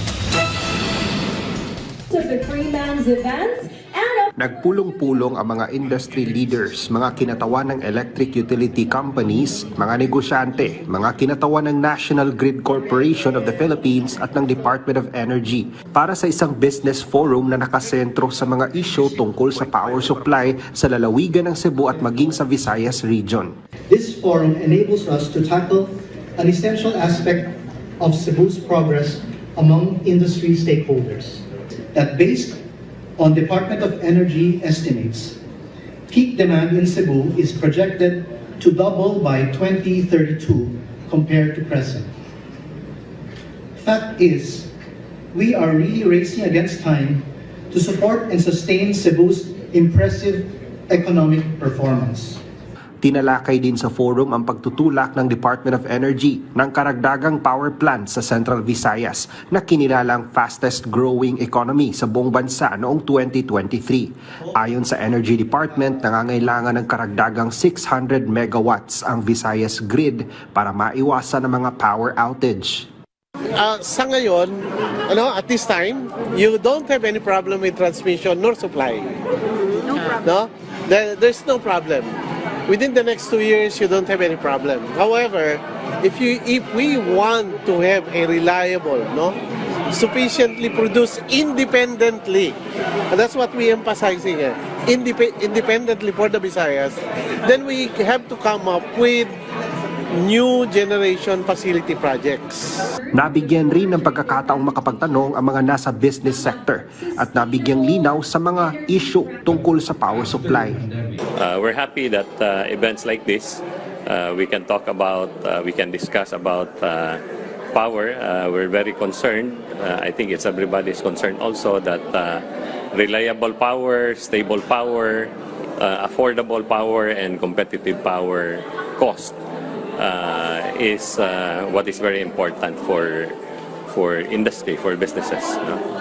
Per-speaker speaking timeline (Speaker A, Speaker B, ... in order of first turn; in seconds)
Speaker A: 2.1-4.3
Speaker B: 4.4-23.5, 53.0-72.9, 103.1-110.8
Speaker C: 23.9-32.6, 33.2-35.4, 36.1-42.1, 43.8-44.7, 45.3-52.4
Speaker D: 73.6-79.1, 79.7-82.2, 82.7-89.4, 89.9-92.6, 93.1-99.3, 100.1-102.9
Speaker E: 111.3-117.2, 117.7-129.4, 130.0-133.3, 133.9-135.8